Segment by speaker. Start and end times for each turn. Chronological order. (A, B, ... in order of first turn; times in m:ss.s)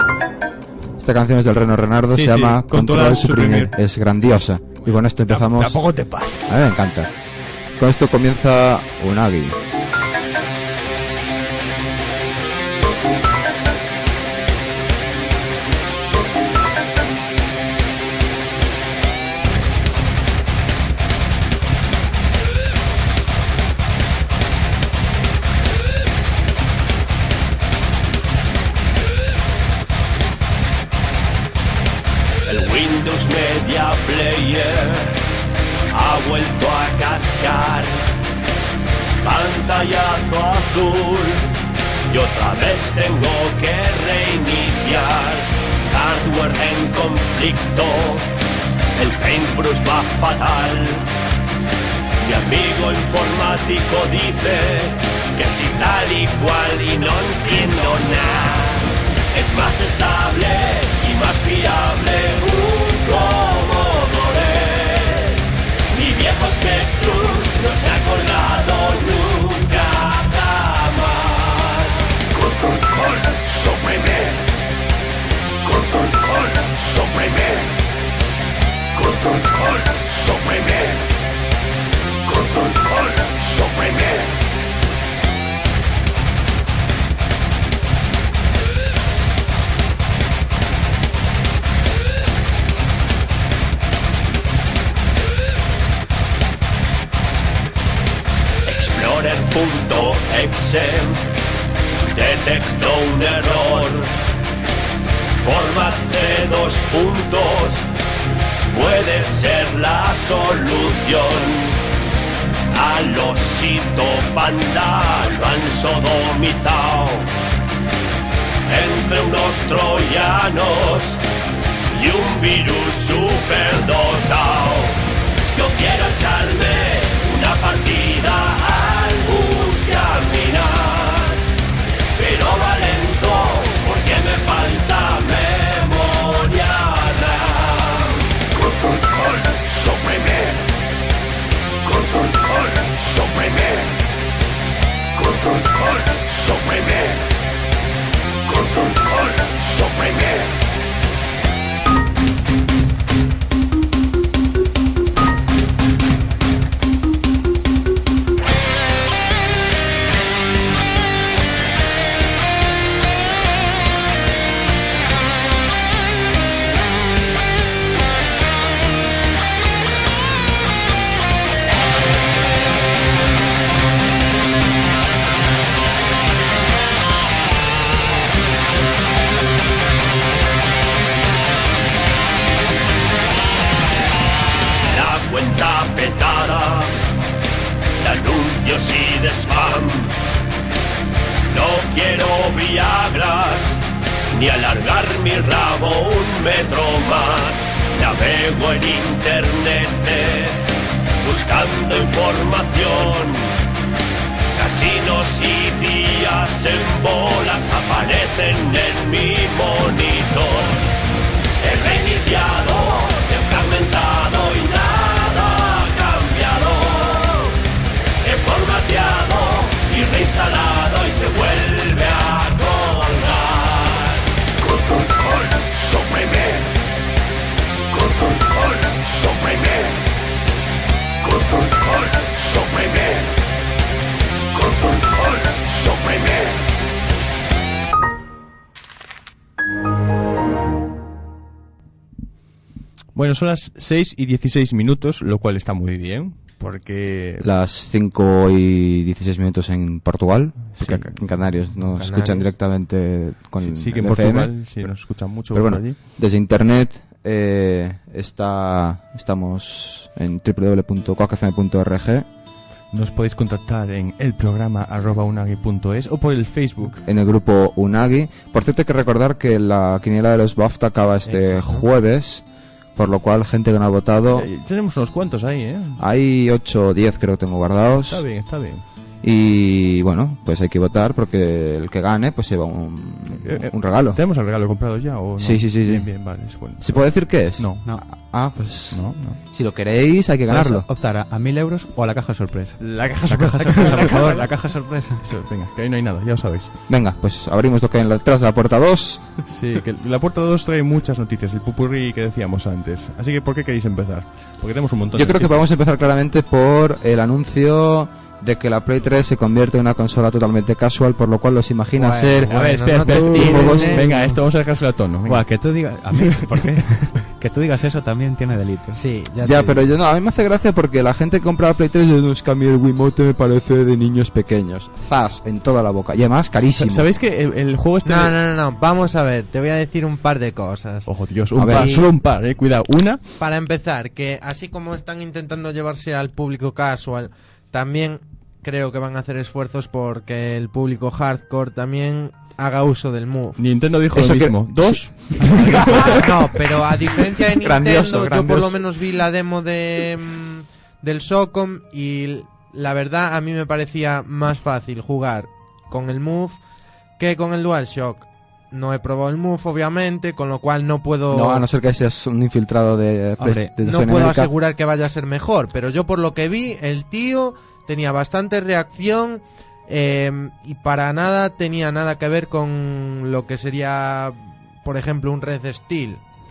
0:01.0-0:05.8 A
0:02.1-0:03.7 B
0:04.8-0:06.6 B
0:06.5-0:07.1 A
0:07.8-0:09.6 A
0:32.5-0:35.2 C
0:35.9-0:38.0 C
0:39.2-0:41.6 C
0:42.1-0:48.3 C
0:49.0-0:51.1 C
0:52.2-1:12.1 C
1:13.1-1:14.4 C
1:15.8-1:17.7 C
1:19.3-1:20.9 C
1:38.7-1:41.2 C
1:42.1-1:44.1 C
1:45.4-1:47.9 C
1:48.7-1:51.8 C
1:52.7-1:57.3 C
1:58.7-2:01.2 C
2:01.9-2:05.0 C
2:05.5-2:11.6 C
2:12.1-2:18.3 C
2:19.3-2:20.6 C
2:22.6-2:23.9 C
2:26.0-2:27.2 C
3:04.9-3:07.0 C
3:08.0-3:10.1 C
3:11.5-3:20.7 C
3:21.2-3:23.6 C
3:24.6-3:30.9 C
3:31.6-3:37.6 C
3:38.2-3:44.3 C
3:45.4-3:46.6 C
4:03.1-4:07.5 B
4:07.4-4:14.9 A
4:10.7-4:11.2 B
4:11.9-4:12.5 D
4:13.6-4:16.0 B
4:15.5-4:22.3 A
4:22.9-4:27.0 B
4:27.0-4:32.4 A
4:31.2-4:31.9 D
4:33.0-4:34.5 A
4:34.3-4:36.0 B
4:36.0-4:38.4 A
4:38.0-4:38.8 B
4:39.2-4:44.2 A
4:43.4-4:47.8 B
4:45.4-4:50.9 A
4:48.9-4:49.4 B
4:50.5-4:55.2 E
4:52.8-4:56.7 B
4:56.9-4:59.4 A
4:59.5-5:05.6 B
5:05.1-5:14.0 A
5:12.0-5:14.0 D
5:12.5-5:16.7 B
5:13.6-5:14.4 E
5:15.3-5:19.0 E
5:18.9-5:19.9 D
5:19.4-5:27.1 A
5:26.8-5:28.4 B
5:28.0-5:32.1 D
5:31.1-5:33.2 B
5:31.6-5:31.9 A
5:33.4-5:43.7 D
5:43.6-5:46.2 B
5:44.1-5:46.2 A
5:46.0-5:56.6 D
5:47.5-5:48.9 A
5:57.2-6:01.6 D
6:01.3-6:04.5 A
6:03.4-6:03.7 E
6:03.8-6:16.2 D